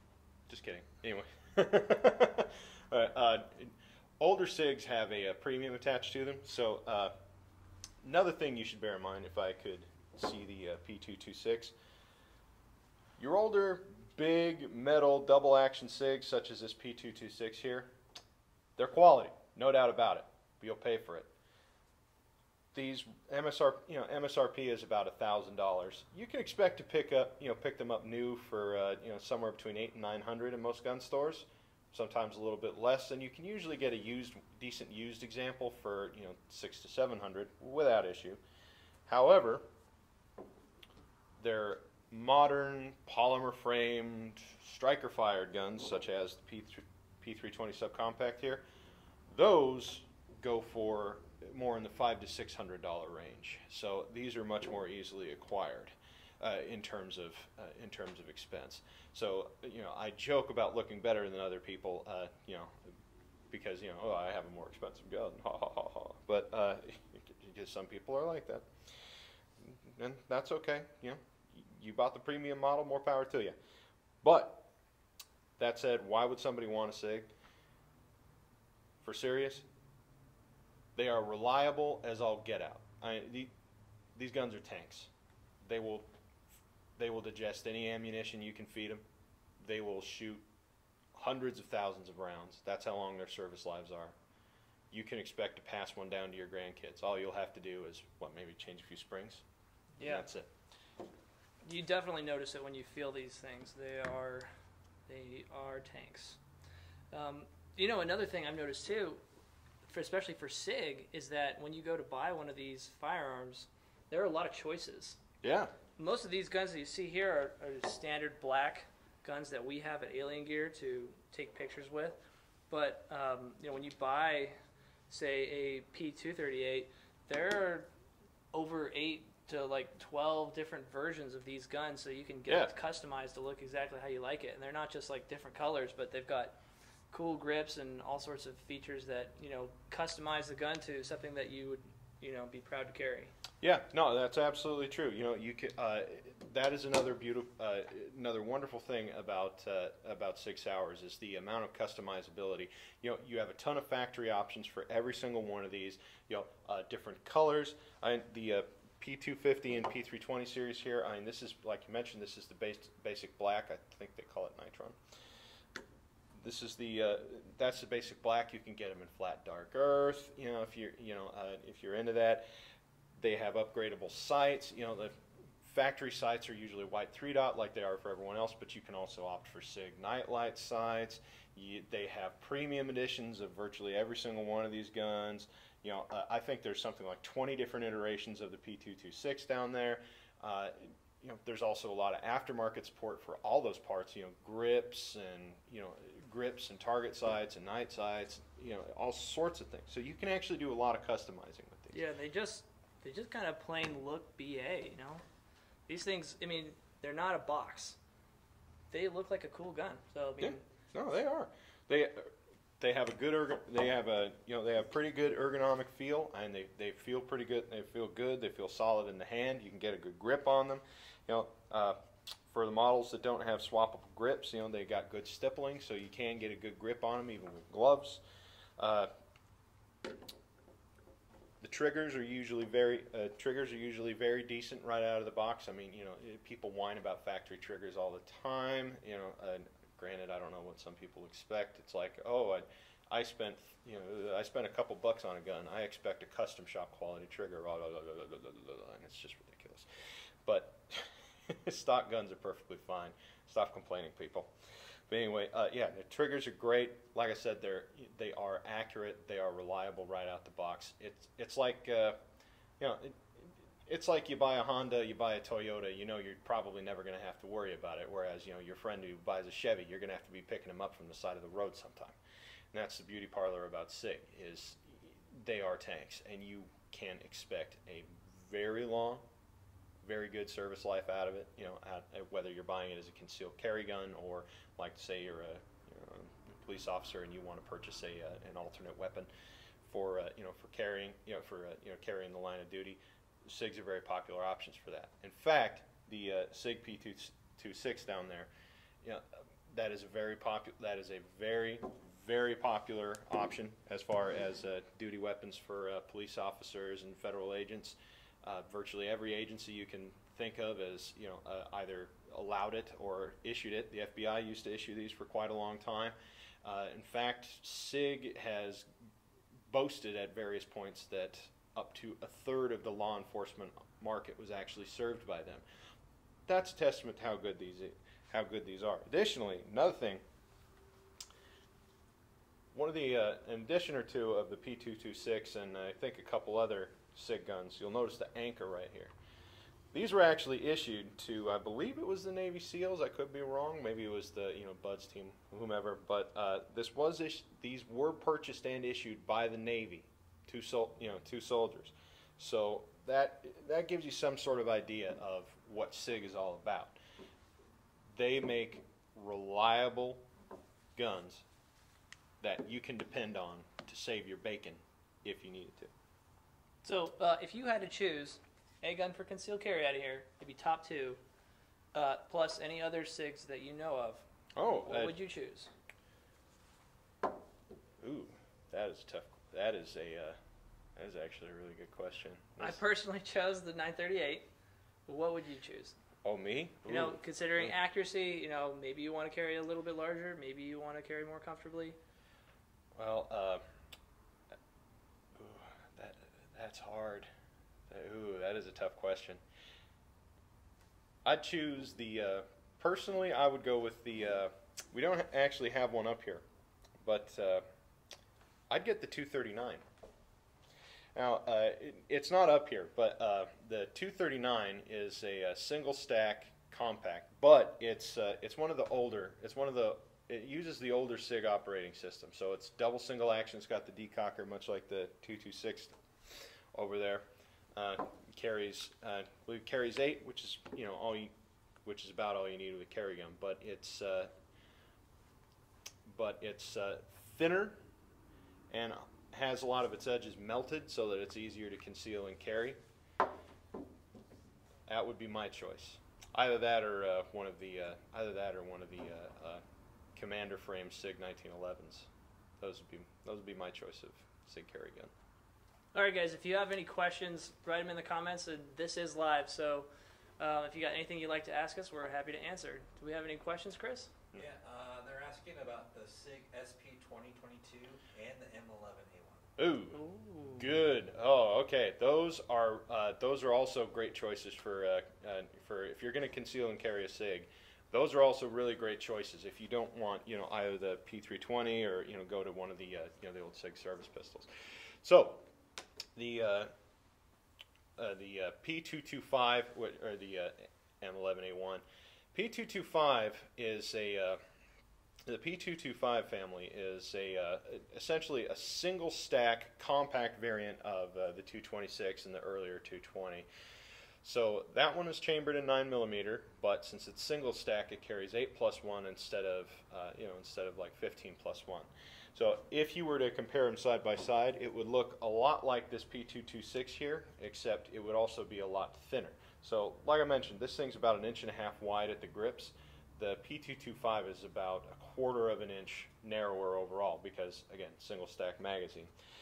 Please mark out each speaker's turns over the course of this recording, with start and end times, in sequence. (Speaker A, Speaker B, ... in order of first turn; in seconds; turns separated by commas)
Speaker A: 0.5-7.1, Speaker A: 8.0-11.7, Speaker A: 13.2-17.9, Speaker A: 18.8-21.3, Speaker A: 22.7-38.4, Speaker A: 39.0-39.6, Speaker A: 41.4-48.6, Speaker A: 49.3-62.8, Speaker A: 63.5-68.7, Speaker A: 69.6-73.5, Speaker A: 74.2-74.7, Speaker A: 75.6-77.3, Speaker A: 79.0-79.6, Speaker A: 80.9-83.5, Speaker A: 84.1-85.1, Speaker A: 85.6-86.0, Speaker A: 87.0-89.0, Speaker A: 89.6-90.4, Speaker A: 91.1-94.1, Speaker A: 94.9-99.4, Speaker B: 100.0-100.3, Speaker A: 100.0-100.5, Speaker B: 101.6-104.5, Speaker B: 105.1-106.4, Speaker B: 107.1-109.2, Speaker B: 109.8-115.2, Speaker A: 115.4-115.7, Speaker B: 116.0-122.2, Speaker B: 122.7-124.5, Speaker B: 125.1-127.9, Speaker B: 128.5-136.6, Speaker A: 132.5-132.7, Speaker B: 137.1-143.3, Speaker A: 143.6-165.0, Speaker A: 166.4-172.4, Speaker A: 173.2-202.0, Speaker B: 201.9-205.2, Speaker B: 205.9-208.0, Speaker B: 208.9-210.6, Speaker A: 210.4-222.0, Speaker A: 222.5-228.2, Speaker A: 228.8-229.1, Speaker A: 231.6-249.8, Speaker A: 250.4-254.5, Speaker A: 255.1-262.2, Speaker A: 262.8-272.2, Speaker A: 272.7-279.2, Speaker A: 280.0-289.3, Speaker A: 289.8-298.5, Speaker A: 299.0-318.9, Speaker A: 319.7-325.6, Speaker A: 326.5-330.2, Speaker A: 332.7-339.1, Speaker A: 339.9-356.9, Speaker A: 358.1-360.2, Speaker A: 360.9-361.4, Speaker A: 362.4-365.9, Speaker B: 366.8-371.2, Speaker B: 371.9-375.7, Speaker A: 374.6-375.1, Speaker A: 378.0-380.4, Speaker A: 380.9-382.8, Speaker B: 382.6-384.5, Speaker B: 385.1-385.9, Speaker A: 386.2-387.7, Speaker B: 386.9-392.0, Speaker A: 393.0-393.6, Speaker A: 395.4-397.3, Speaker A: 397.9-399.4, Speaker A: 401.2-406.4, Speaker A: 407.0-407.6, Speaker A: 408.7-409.8, Speaker A: 411.1-426.0, Speaker A: 426.7-431.3, Speaker A: 431.8-434.3, Speaker A: 436.0-437.8, Speaker A: 438.7-442.8, Speaker A: 444.9-449.6, Speaker A: 450.1-452.1, Speaker A: 452.6-455.1, Speaker B: 455.9-464.1, Speaker C: 464.4-469.5, Speaker A: 469.6-484.5, Speaker B: 469.9-470.7, Speaker A: 485.0-485.4, Speaker A: 486.1-486.7, Speaker A: 488.0-494.4, Speaker A: 495.3-503.5, Speaker A: 504.2-529.1